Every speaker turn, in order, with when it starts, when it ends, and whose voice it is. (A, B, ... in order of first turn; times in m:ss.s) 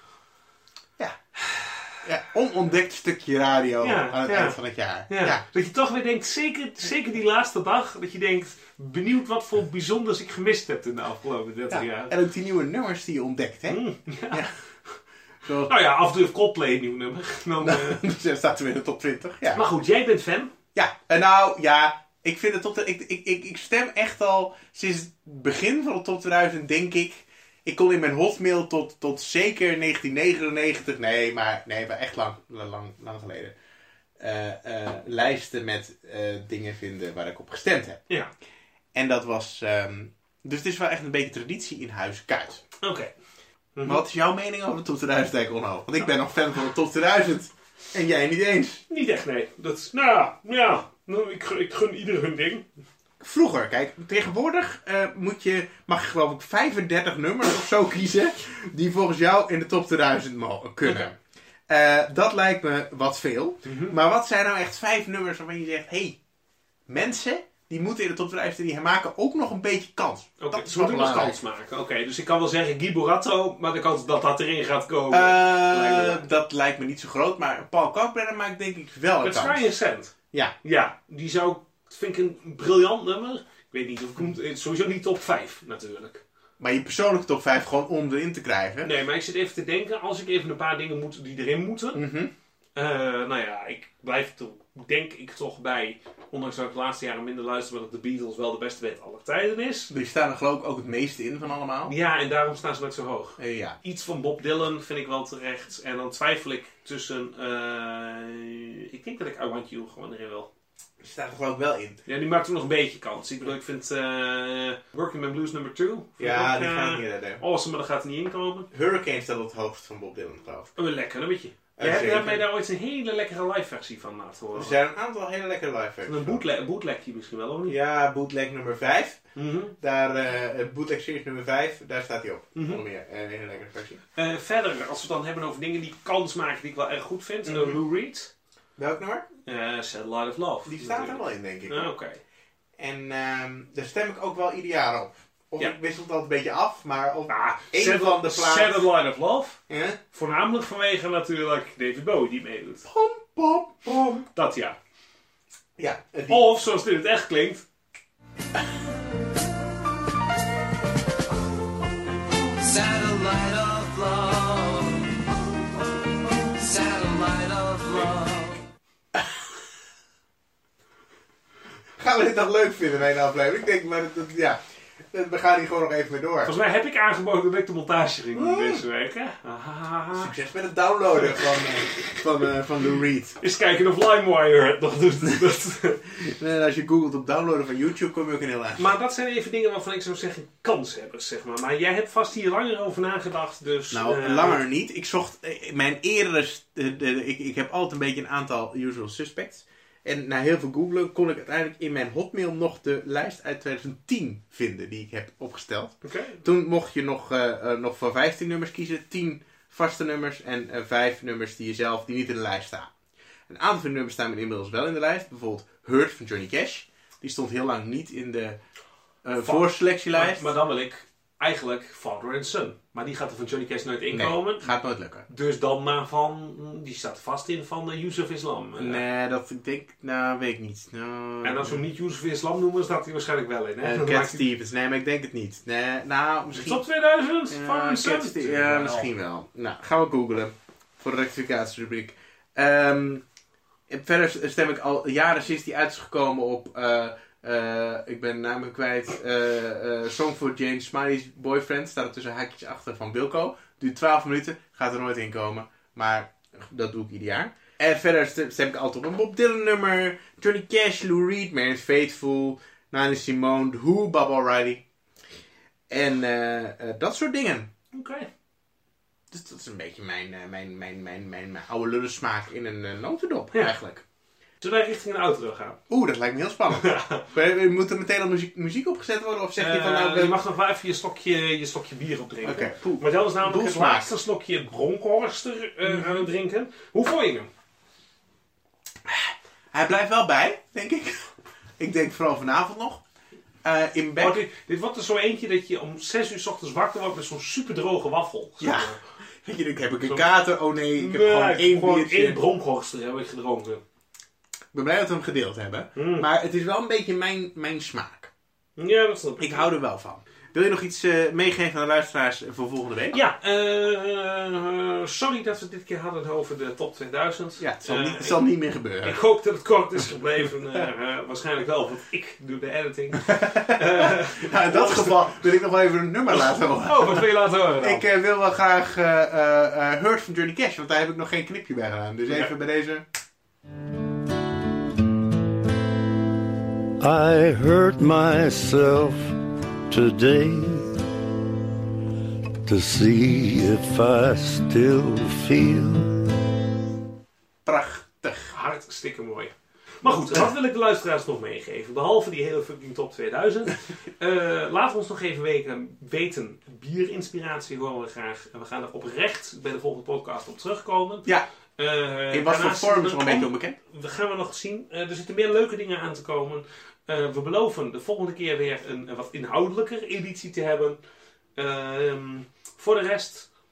0:01.5-0:01.8 A
0:02.0-0:05.4 B
0:03.8-0:04.6 A
0:05.1-0:12.1 A
0:11.7-0:14.5 B
0:13.7-0:14.4 A
0:15.4-0:15.7 B
0:15.7-0:18.0 A
0:17.6-0:19.6 B
0:19.5-0:20.5 A
0:20.7-0:33.5 B
0:34.2-0:38.0 B
0:38.9-0:42.6 B
0:42.8-0:43.1 A
0:43.8-0:44.0 A
0:43.8-0:48.8 B
0:48.9-0:52.6 A
0:53.2-1:01.2 B
1:01.7-1:06.2 B
1:03.6-1:04.0 A
1:06.9-1:11.4 B
1:10.4-1:16.3 A
1:15.1-1:19.7 B
1:19.2-1:26.2 A
1:26.6-1:28.9 B
1:28.8-1:32.0 A
1:31.9-1:32.3 B
1:32.7-1:39.9 A
1:39.9-1:41.9 B
1:41.8-1:50.5 A
1:43.4-1:43.8 B
1:51.0-1:52.0 B
1:52.0-1:58.7 A
1:56.2-1:57.4 B
1:58.7-2:00.7 B
2:00.8-2:04.8 A
2:01.8-2:02.5 B
2:04.5-2:06.4 B
2:06.0-2:07.8 A
2:07.7-2:09.2 B
2:09.4-2:09.7 A
2:09.8-2:14.0 B
2:12.5-2:12.8 A
2:14.1-2:18.3 A
2:17.4-2:17.8 B
2:18.8-2:19.3 B
2:19.4-2:22.2 A
2:20.6-2:21.9 B
2:22.8-2:28.9 B
2:27.3-2:29.6 A
2:29.7-2:30.0 B
2:30.1-2:32.8 A
2:32.8-2:34.2 B
2:34.3-2:34.8 A
2:35.8-2:36.5 B
2:36.3-2:37.6 A
2:42.6-2:44.8 C
2:46.6-2:47.9 C
2:49.1-2:49.4 B
2:52.0-2:54.6 B
2:55.1-2:56.5 B
2:56.4-3:00.3 A
2:58.3-2:58.8 B
3:00.1-3:03.4 B
3:03.4-3:06.0 A
3:06.1-3:08.8 B
3:08.8-3:14.6 A
3:13.9-3:32.9 B
3:26.0-3:26.4 A
3:33.5-3:38.6 B
3:39.2-3:40.5 B
3:39.4-3:44.6 A
3:44.1-3:45.2 B
3:45.3-3:49.0 A
3:48.8-3:51.8 B
3:51.4-3:54.4 A
3:53.8-3:56.8 B
3:56.5-3:59.1 A
3:57.5-4:03.2 B
4:03.9-4:24.8 B
4:25.9-4:27.7 B
4:27.9-4:28.3 A
4:29.3-4:34.0 B
4:34.6-4:35.8 A
4:35.9-4:40.4 B
4:36.7-4:37.2 A
4:39.6-4:47.5 A
4:42.4-4:44.1 B
4:45.9-4:46.3 B
4:49.0-4:53.0 B
4:53.6-4:54.4 B
4:54.2-4:59.0 A
4:58.6-5:02.4 B
5:01.0-5:03.8 A
5:04.7-5:08.3 B
5:06.0-5:06.3 A
5:08.8-5:09.6 A
5:09.4-5:13.2 B
5:13.1-5:18.4 A
5:17.6-5:19.2 B
5:19.0-5:25.3 A
5:23.2-5:27.2 B
5:26.3-5:28.0 A
5:27.8-5:33.0 B
5:37.0-5:39.4 D
5:39.9-5:41.0 D
5:42.6-5:46.4 D
5:47.6-5:48.5 B
5:48.5-6:11.0 A
6:02.3-6:03.8 B
6:11.6-6:13.5 A